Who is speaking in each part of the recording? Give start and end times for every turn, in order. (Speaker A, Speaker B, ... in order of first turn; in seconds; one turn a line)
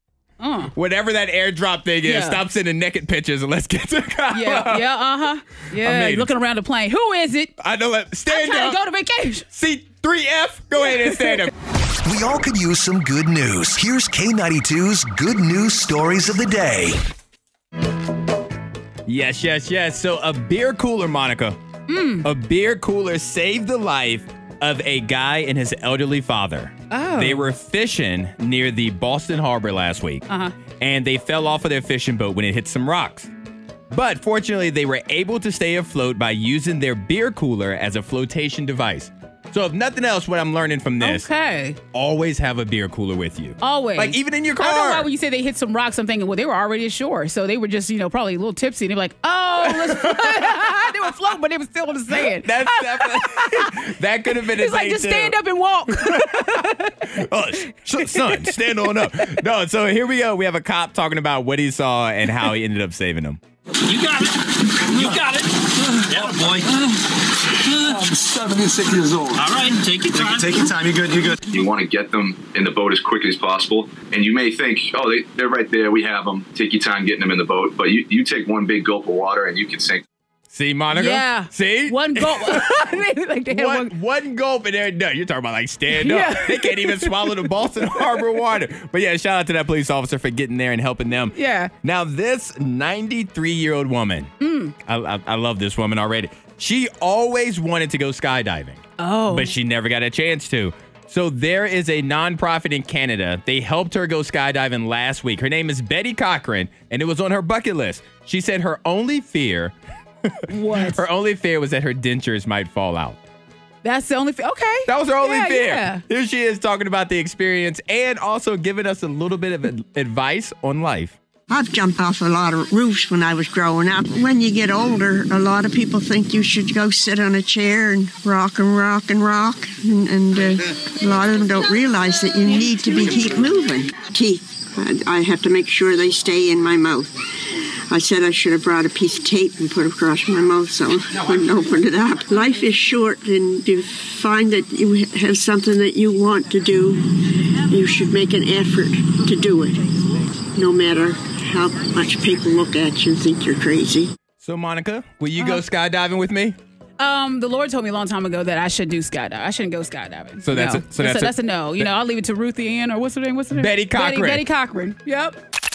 Speaker A: 0.4-0.7
Speaker B: 0.7-4.9
Speaker A: 2.0-2.4
Speaker A: 4.3-7.5
Speaker B: 5.8-6.3
Speaker B: 7.6-8.8
Speaker A: 8.3-9.5
Speaker B: 9.5-11.5
Speaker A: 10.9-11.4
Speaker C: 12.0-17.0
Speaker B: 19.1-21.6
Speaker A: 21.9-22.3
Speaker B: 22.2-30.3
Speaker A: 26.9-27.4
Speaker A: 30.3-30.6
Speaker B: 30.8-33.3
Speaker B: 33.9-41.3
Speaker A: 41.0-41.8
Speaker B: 41.9-45.1
Speaker A: 43.6-58.7
Speaker B: 49.6-51.1
Speaker B: 52.1-63.4
Speaker D: 63.8-67.0
Speaker D: 67.6-68.2
Speaker E: 67.9-69.4
Speaker D: 69.3-71.0
Speaker E: 70.2-71.4
Speaker F: 71.5-80.0
Speaker B: 80.5-82.8
Speaker A: 80.9-83.9
Speaker B: 83.5-113.2
Speaker A: 85.9-88.2
Speaker A: 91.3-91.7
Speaker A: 94.4-94.7
Speaker A: 99.0-99.5
Speaker A: 110.5-111.0
Speaker A: 113.8-116.0
Speaker B: 114.9-121.2
Speaker G: 121.5-137.2
Speaker G: 137.9-147.1
Speaker G: 147.7-150.0
Speaker G: 150.5-154.1
Speaker B: 154.4-156.6
Speaker A: 155.4-155.6
Speaker A: 157.0-165.4
Speaker B: 160.4-161.9
Speaker B: 163.5-164.4